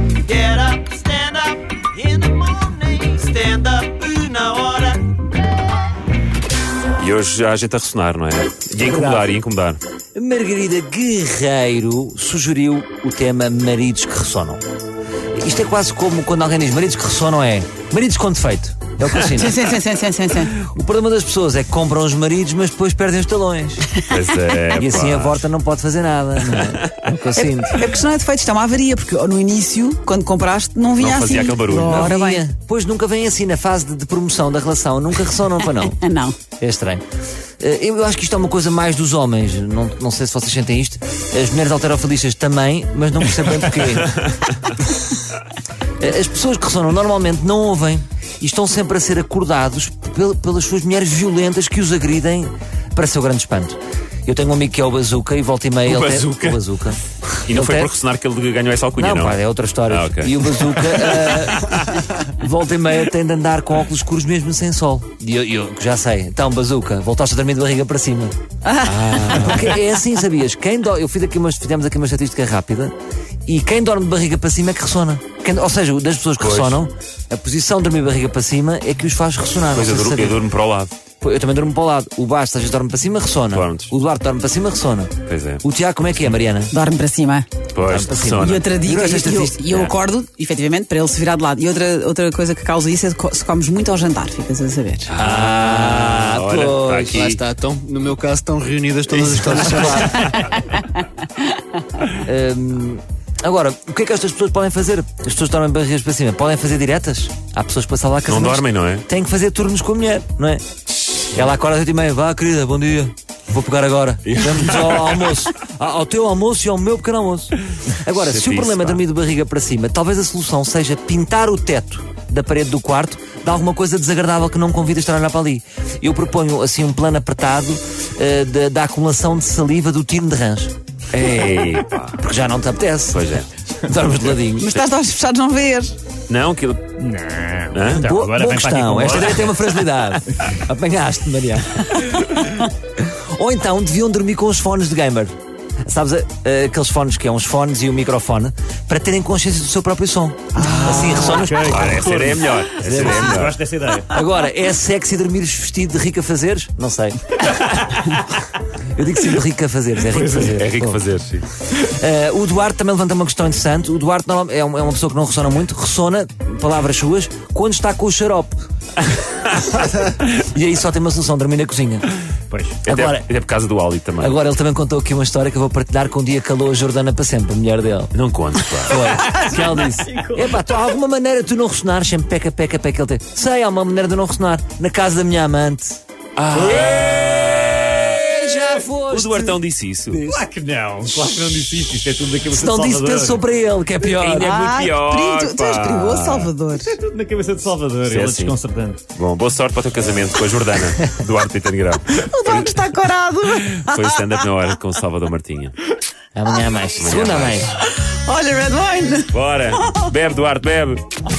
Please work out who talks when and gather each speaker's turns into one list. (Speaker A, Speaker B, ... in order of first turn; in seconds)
Speaker A: 0.2-5.1
Speaker B: 7.0-9.8, 24.0-25.4, 26.4-27.1, 31.0-32.1, 55.8-56.6, 57.3-62.0, 68.9-69.7, 76.4-76.8, 79.7-80.9, 83.5-83.9, 85.2-85.6, 87.7-88.7, 95.1-97.5, 99.2-100.4, 108.3-109.0, 114.2-115.3, 118.1-119.0, 131.1-132.2, 133.1-133.5, 136.3-136.9, 137.7-138.1, 151.3-153.6, 160.6-161.4, 169.1-169.6, 172.8-174.4, 178.1-179.2, 186.3-188.2, 189.1-190.2, 194.0-196.5, 198.0-198.6, 199.1-202.7, 203.6-205.7, 207.0-207.7, 209.3-211.0
Speaker C: 8.8-9.3, 10.1-14.6, 15.3-19.6, 20.6-23.9, 24.8-27.9, 31.7-36.0, 36.6-37.0, 37.6-44.8, 46.0-57.9, 59.0-72.9, 73.5-80.4, 81.2-86.7, 87.9-89.7, 95.2-97.3, 99.3-100.2, 102.1-110.6, 111.3-134.7, 138.0-145.3, 145.8-152.1, 152.8-157.6, 158.8-161.0, 161.7-168.6, 169.8-172.1, 172.9-173.3, 174.2-178.1, 178.8-186.0, 186.5-189.6, 190.1-190.4, 192.5-194.5, 206.3-207.8
Speaker D: 19.2-20.5, 27.6-32.4, 35.8-36.4, 68.6-69.6, 86.7-87.5, 88.4-95.1, 134.6-135.9, 194.3-196.9, 202.1-204.4, 207.9-210.1
Speaker E: 97.1-100.2
Speaker F: 137.0-139.6, 150.6-154.1, 160.2-160.5, 172.5-172.8, 179.6-180.5, 190.2-193.4, 196.8-199.0